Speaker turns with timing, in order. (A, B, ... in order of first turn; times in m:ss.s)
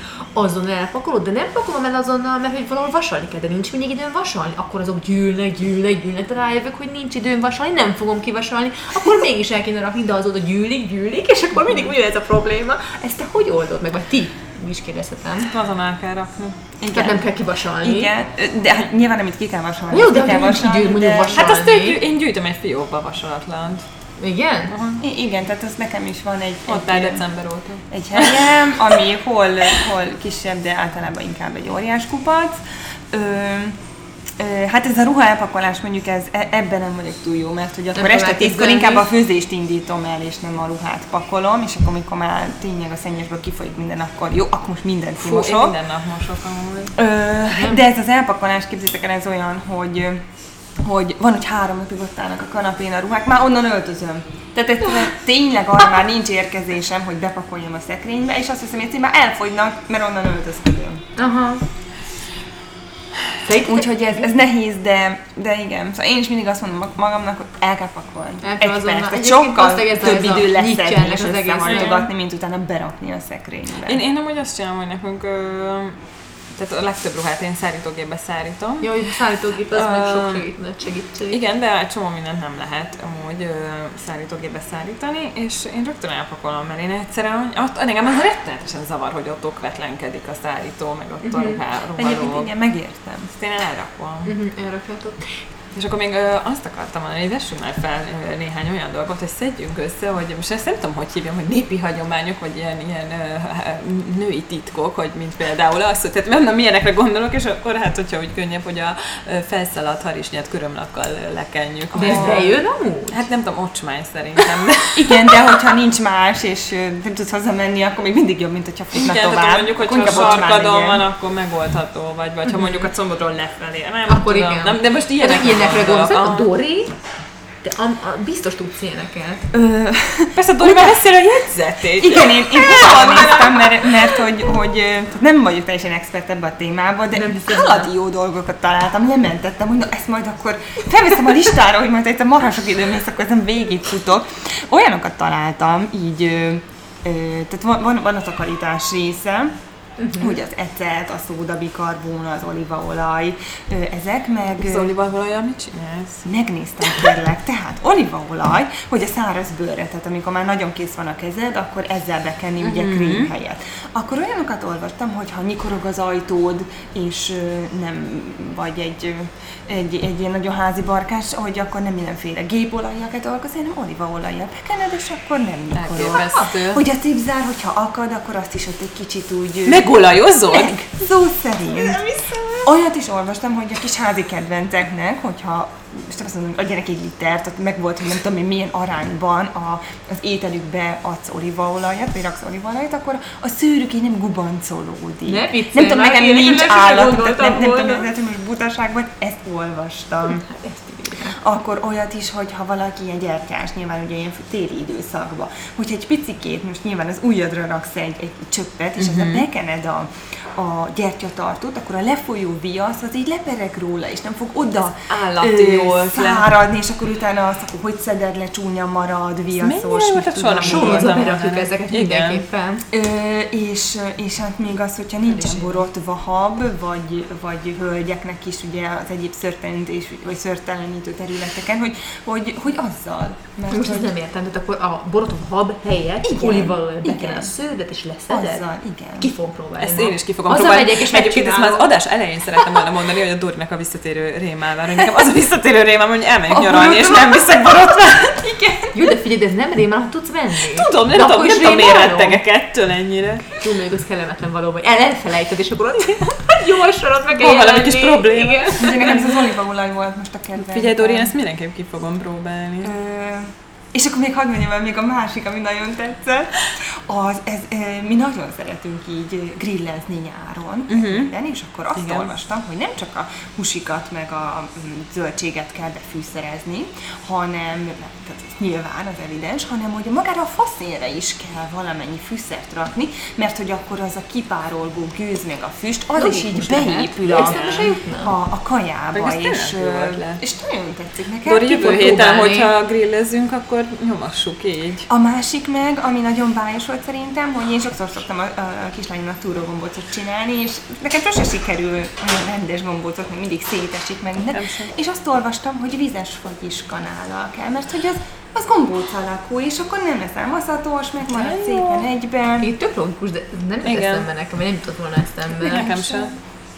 0:00.3-0:15.5 A
0:15.4-0:16.6 B
0:16.8-0:17.2 C
0:16.9-0:18.1 A
0:17.8-0:21.5 C
0:19.9-0:22.0 A
0:21.3-0:23.8 B
0:24.2-0:24.7 A
0:24.7-0:25.0 B
0:25.0-0:27.2 C
0:26.7-0:28.7 B
0:27.9-0:33.8 C
0:34.4-0:45.7 C
0:37.9-0:39.0 A
0:45.2-0:47.0 B
0:47.0-0:50.2 C
0:47.5-0:47.8 A
0:50.8-1:01.0 C
1:01.2-1:01.6 A
1:03.4-1:04.1 A
1:03.5-1:14.0 C
1:08.4-1:12.1 A
1:13.8-1:16.0 B
1:16.5-1:18.9 B
1:18.8-1:21.4 A
1:19.7-1:20.5 B
1:21.3-1:32.5 B
1:31.2-1:31.6 A
1:32.0-1:33.3 C
1:33.3-1:34.3 B
1:34.2-1:35.3 A
1:35.7-1:52.4 B
1:51.9-1:53.2 A
1:52.0-1:52.5 C
1:53.1-1:55.2 B
1:54.9-2:01.0 C
1:58.9-2:06.5 B
2:04.1-2:06.9 A
2:07.6-2:09.5 A
2:09.5-2:11.0 C
2:10.3-2:13.8 B
2:11.9-2:29.6 C
2:17.1-2:17.9 A
2:30.0-2:30.4 A
2:30.1-2:34.9 C
2:34.6-2:36.2 B
2:36.2-2:59.9 C
2:42.6-2:43.3 B
2:55.7-2:56.8 B
2:59.6-3:00.8 B
3:00.5-3:20.4 C
3:15.2-3:18.0 A
3:20.4-3:21.3 A
3:21.2-3:41.2 C
3:29.0-3:29.4 B
3:35.1-3:36.6 B
3:39.6-3:42.4 B
3:40.6-3:42.8 A
3:42.9-3:54.1 C
3:45.3-3:45.8 A
3:53.7-3:58.6 A
3:56.2-3:57.5 C
3:58.3-3:59.3 C
3:59.2-4:01.9 A
3:59.8-4:08.9 B
4:06.6-4:07.4 A
4:08.9-4:12.4 A
4:10.6-4:13.6 B
4:13.5-4:19.1 A
4:17.3-4:19.3 B
4:18.8-4:21.3 C
4:20.6-4:22.9 B
4:22.8-4:51.7 C
4:30.9-4:31.3 B
4:31.9-4:32.3 B
4:46.2-4:48.3 A
4:47.3-4:47.9 B
4:49.1-4:50.4 B
4:51.4-4:55.1 B
4:51.6-4:52.7 A
4:55.1-5:12.7 C
5:04.5-5:04.9 B
5:11.3-5:12.0 B
5:12.6-5:15.9 A
5:13.8-5:14.3 B
5:15.5-5:16.3 B